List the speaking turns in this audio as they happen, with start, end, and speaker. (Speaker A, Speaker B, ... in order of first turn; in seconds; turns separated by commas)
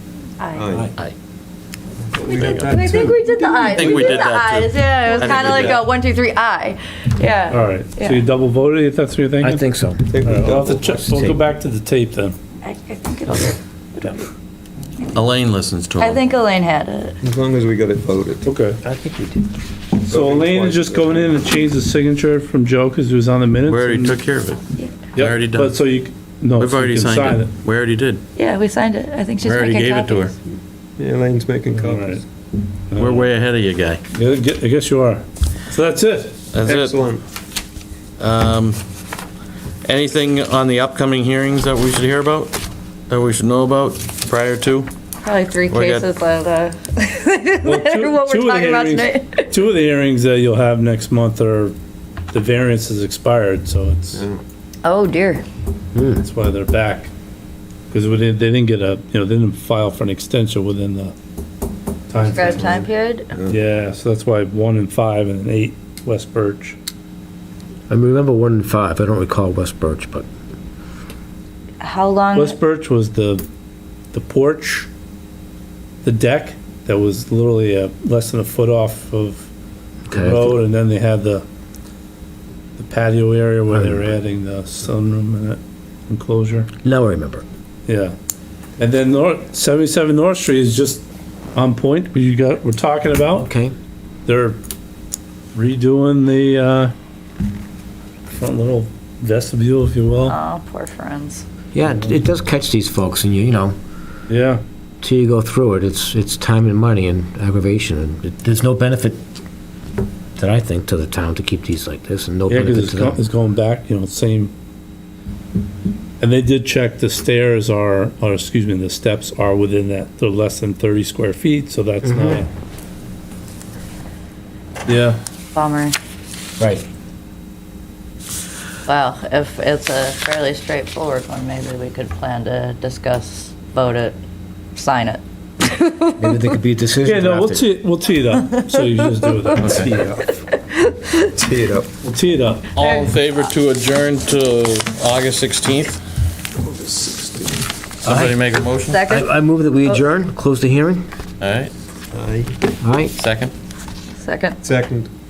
Speaker A: 0.4-0.7, Speaker B: 0.6-0.9, Speaker B: 2.1-4.3, Speaker C: 2.3-2.8, Speaker A: 2.6-8.2, Speaker C: 3.7-5.8, Speaker B: 5.3-5.7, Speaker D: 7.5-9.7, Speaker E: 9.4-10.1, Speaker B: 10.1-11.3, Speaker D: 10.2-12.4, Speaker E: 11.1-11.4, Speaker A: 12.6-14.2, Speaker C: 15.1-16.2, Speaker A: 16.0-17.2, Speaker B: 17.2-18.5, Speaker D: 18.4-18.8, Speaker E: 18.8-19.4, Speaker D: 20.0-24.2, Speaker B: 20.1-21.5, Speaker C: 23.7-24.6, Speaker D: 25.1-27.5, Speaker C: 25.2-25.8, Speaker C: 26.6-28.2, Speaker A: 28.4-30.4, Speaker C: 29.4-30.3, Speaker B: 31.0-32.2, Speaker D: 31.7-32.2, Speaker D: 32.9-33.3, Speaker C: 33.0-34.0, Speaker D: 34.1-36.4, Speaker C: 36.5-37.0, Speaker B: 36.6-37.2, Speaker C: 38.2-38.8, Speaker C: 39.9-44.9, Speaker A: 45.2-49.5, Speaker C: 45.7-46.1, Speaker D: 47.6-51.8, Speaker D: 52.3-54.2, Speaker B: 54.1-54.4, Speaker A: 54.8-55.4, Speaker E: 56.0-56.2, Speaker D: 56.2-57.1, Speaker D: 57.9-61.1, Speaker D: 62.1-62.8, Speaker B: 62.2-63.6, Speaker A: 62.3-63.3, Speaker D: 63.5-66.8, Speaker E: 67.9-70.3, Speaker A: 71.8-72.6, Speaker D: 72.3-73.5, Speaker D: 74.1-74.9, Speaker D: 76.0-79.5, Speaker E: 80.1-80.6, Speaker D: 80.1-81.4, Speaker D: 82.8-86.7, Speaker E: 83.7-84.0, Speaker E: 86.8-87.5, Speaker D: 87.9-88.2, Speaker D: 88.8-93.5, Speaker E: 93.3-93.8, Speaker D: 94.3-94.6, Speaker D: 95.5-96.9, Speaker D: 98.3-100.4, Speaker A: 100.2-101.5, Speaker E: 101.8-103.8, Speaker D: 104.3-104.6, Speaker E: 105.0-109.2, Speaker E: 110.4-113.2, Speaker D: 112.5-114.5, Speaker D: 116.2-122.5, Speaker E: 122.0-122.4, Speaker D: 124.9-125.2, Speaker A: 125.5-126.0, Speaker E: 126.6-126.9, Speaker A: 128.9-134.2, Speaker A: 134.8-136.4, Speaker E: 136.2-137.7, Speaker D: 137.0-139.8, Speaker A: 139.4-141.3, Speaker C: 139.6-139.9, Speaker B: 139.7-140.3, Speaker B: 141.3-142.0, Speaker D: 142.0-142.7, Speaker C: 142.7-146.0, Speaker A: 142.8-143.1, Speaker B: 146.6-147.6, Speaker C: 148.0-149.0, Speaker E: 148.1-148.4, Speaker A: 148.9-149.3, Speaker E: 149.1-151.1, Speaker C: 151.4-151.7, Speaker B: 152.1-152.6, Speaker E: 152.8-153.2, Speaker C: 153.2-153.5, Speaker A: 154.2-154.6, Speaker B: 154.6-155.1